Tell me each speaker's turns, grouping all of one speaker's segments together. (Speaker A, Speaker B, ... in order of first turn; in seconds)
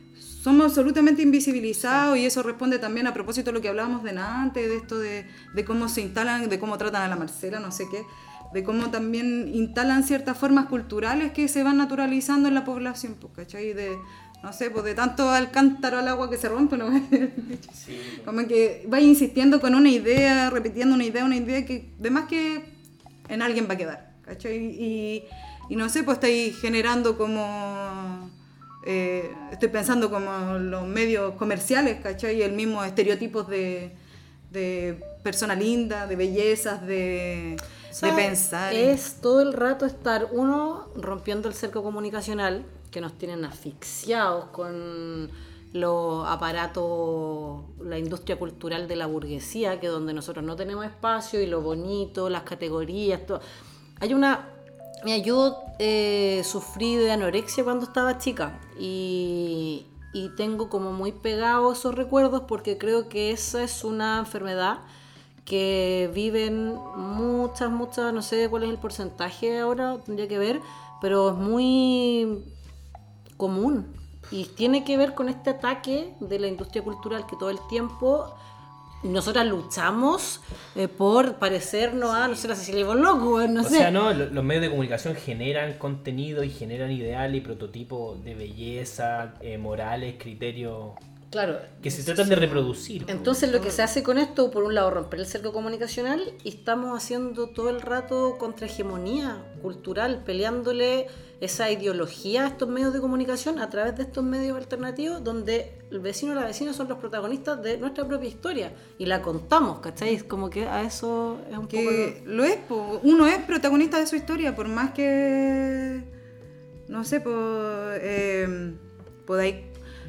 Speaker A: 0.2-34.0, 34.5-39.0, 93.5-93.8, 111.7-116.1, 116.9-119.7
Speaker B: 17.7-18.3, 82.0-82.5, 83.6-91.0, 91.8-93.4
Speaker C: 37.9-53.4, 54.0-64.8, 65.5-72.5, 73.4-78.4, 79.0-83.9, 91.3-112.2